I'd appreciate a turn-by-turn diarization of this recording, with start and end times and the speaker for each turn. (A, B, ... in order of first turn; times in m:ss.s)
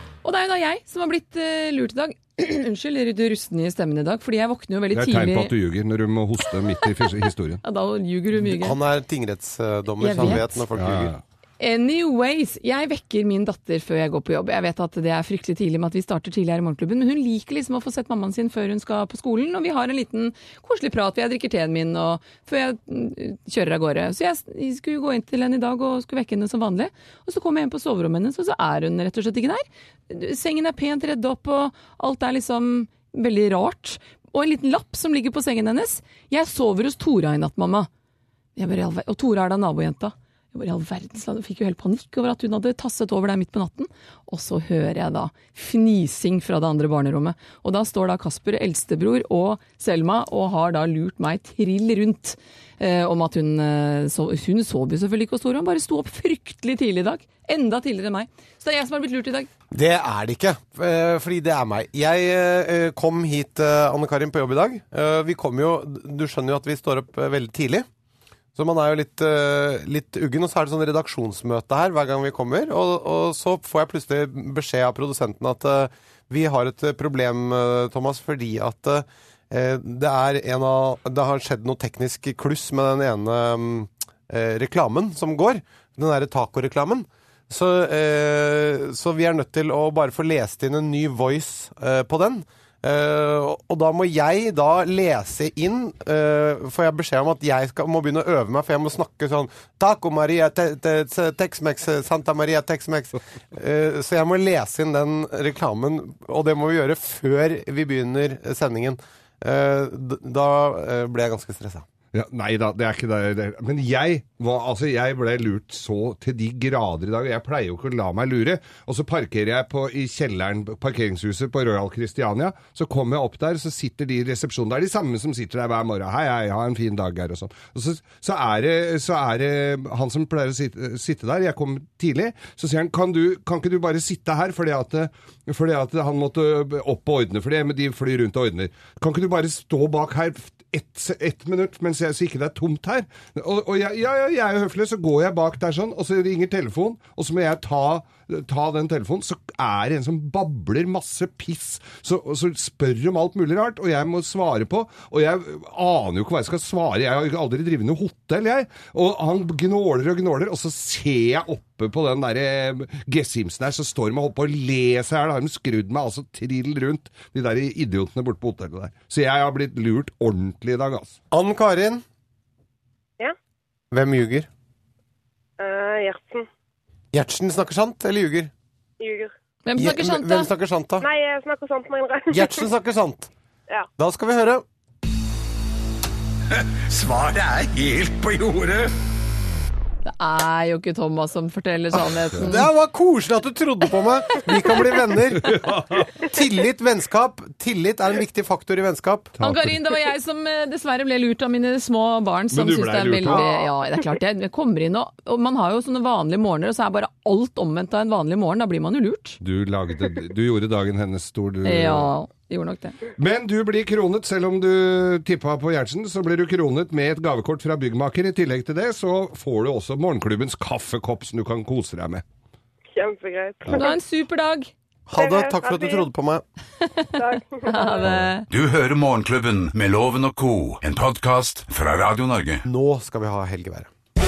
0:00.2-0:05.5 A
0:04.9-0:07.6 B
0:06.8-0:08.8 A
0:08.4-0:11.1 C
0:10.0-0:10.6 A
0:10.3-0:11.2 B
0:11.6-0:37.9 A
0:38.6-0:59.5 A
0:59.7-1:07.9 C
1:08.6-1:51.8 C
1:52.1-2:51.2 B
2:51.3-2:52.0 C
2:53.9-2:54.5 C
2:55.6-2:56.5 D
2:57.1-2:58.5 C
2:59.0-2:59.3 D
2:59.7-3:00.5 A
2:59.8-3:01.1 C
3:01.0-3:02.7 D
3:02.3-3:03.3 C
3:04.0-3:04.6 C
3:06.5-3:08.9 E
3:10.0-3:12.7 A
3:12.3-3:15.6 C
3:15.4-3:16.1 B
3:16.2-3:19.3 C
3:19.4-3:19.8 B
3:19.4-3:29.4 A
3:22.5-3:23.6 B
3:29.4-3:32.1 B
3:31.6-3:33.0 A
3:33.2-3:42.2 B
3:42.9-3:44.0 D
3:43.7-3:44.7 A
3:45.1-3:46.4 C
3:45.2-3:46.1 D
3:47.2-3:48.1 D
3:47.6-3:48.5 A
3:48.0-3:48.3 B
3:48.5-3:52.6 E
3:52.6-3:53.9 C